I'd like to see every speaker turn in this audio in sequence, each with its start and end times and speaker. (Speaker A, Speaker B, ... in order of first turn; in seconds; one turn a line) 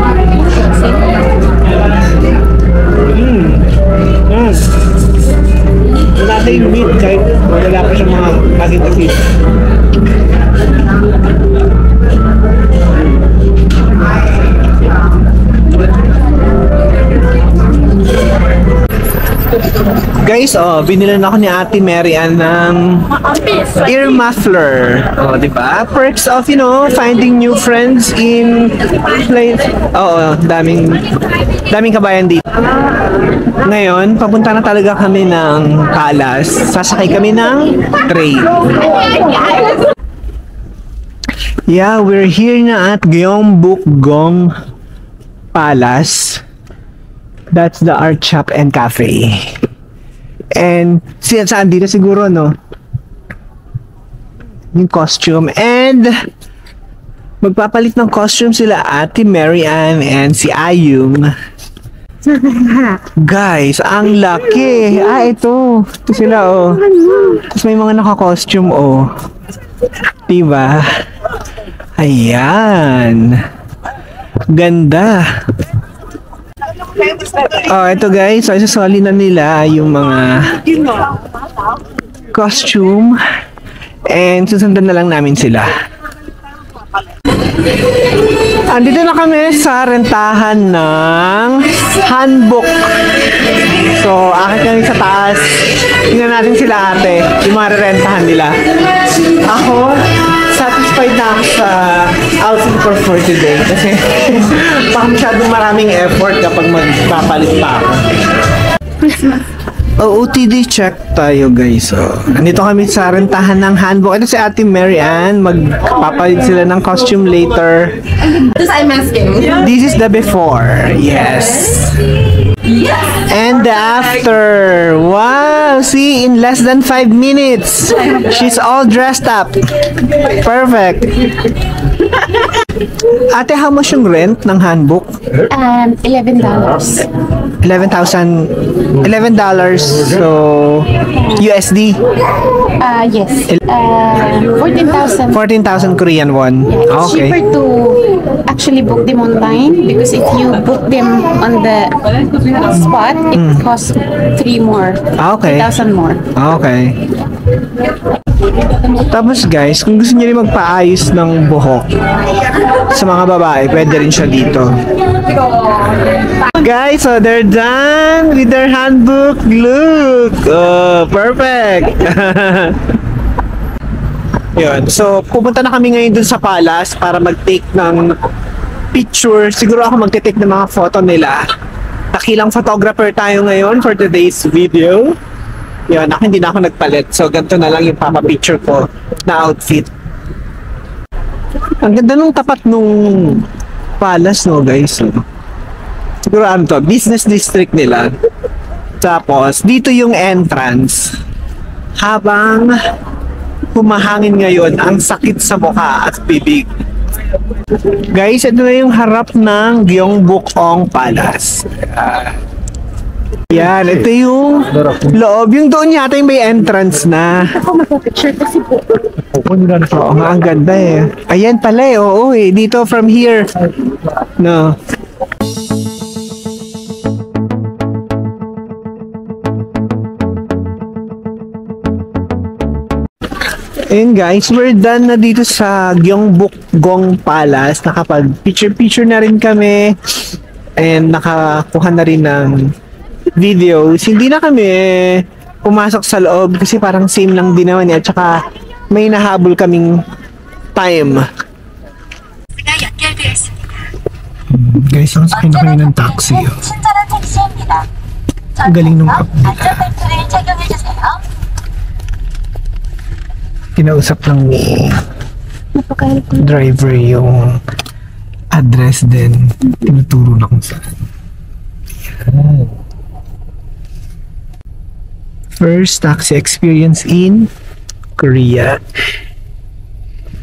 Speaker A: 0.2-1.2
Speaker B: 3.0-3.7
Speaker B: 4.2-4.8
Speaker B: 6.1-9.2
Speaker B: 20.1-23.1
Speaker B: 23.7-31.1
Speaker B: 31.6-32.6
Speaker B: 33.6-38.6
Speaker B: 41.7-44.5
Speaker B: 45.5-46.4
Speaker B: 47.5-49.6
Speaker B: 50.6-52.6
Speaker B: 54.7-56.2
Speaker B: 57.4-61.3
Speaker B: 62.4-69.1
Speaker B: 70.3-71.0
Speaker B: 72.0-73.4
Speaker B: 74.5-75.5
Speaker B: 77.4-80.8
Speaker B: 82.3-83.2
Speaker B: 84.1-85.7
Speaker B: 88.7-92.9
Speaker B: 93.9-98.7
Speaker B: 99.3-108.2
Speaker B: 110.0-118.5
Speaker A: 118.9-119.2
Speaker B: 119.3-122.1
Speaker B: 123.2-131.3
Speaker B: 133.1-135.2
Speaker A: 135.5-137.1
Speaker B: 137.6-142.0
Speaker A: 141.2-141.4
Speaker A: 142.8-145.4
Speaker B: 145.3-147.4
Speaker A: 146.7-156.3
Speaker B: 153.3-153.6
Speaker B: 155.2-155.7
Speaker B: 156.3-157.1
Speaker B: 159.1-162.0
Speaker B: 162.8-164.8
Speaker B: 166.5-172.9
Speaker B: 174.6-178.1
Speaker B: 178.9-181.4
Speaker B: 182.1-185.2
Speaker B: 185.9-189.9
Speaker B: 191.8-193.5
Speaker B: 194.0-195.2
Speaker B: 196.3-198.1
Speaker B: 199.0-201.2
Speaker B: 202.0-202.8
Speaker B: 203.7-206.7
Speaker B: 208.1-212.4
Speaker B: 213.5-217.5
Speaker A: 217.6-219.0
Speaker B: 219.3-223.6
Speaker B: 224.4-224.8
Speaker B: 233.9-240.2
Speaker B: 240.8-242.7
Speaker B: 243.4-250.0
Speaker B: 250.7-251.3
Speaker B: 252.7-253.4
Speaker B: 254.5-256.8
Speaker A: 257.0-257.8
Speaker B: 258.6-260.2
Speaker A: 260.2-261.1
Speaker B: 263.8-265.0
Speaker A: 265.8-266.5
Speaker B: 266.4-267.6
Speaker B: 268.5-270.8
Speaker B: 272.2-272.7
Speaker B: 275.6-277.5
Speaker B: 278.2-278.8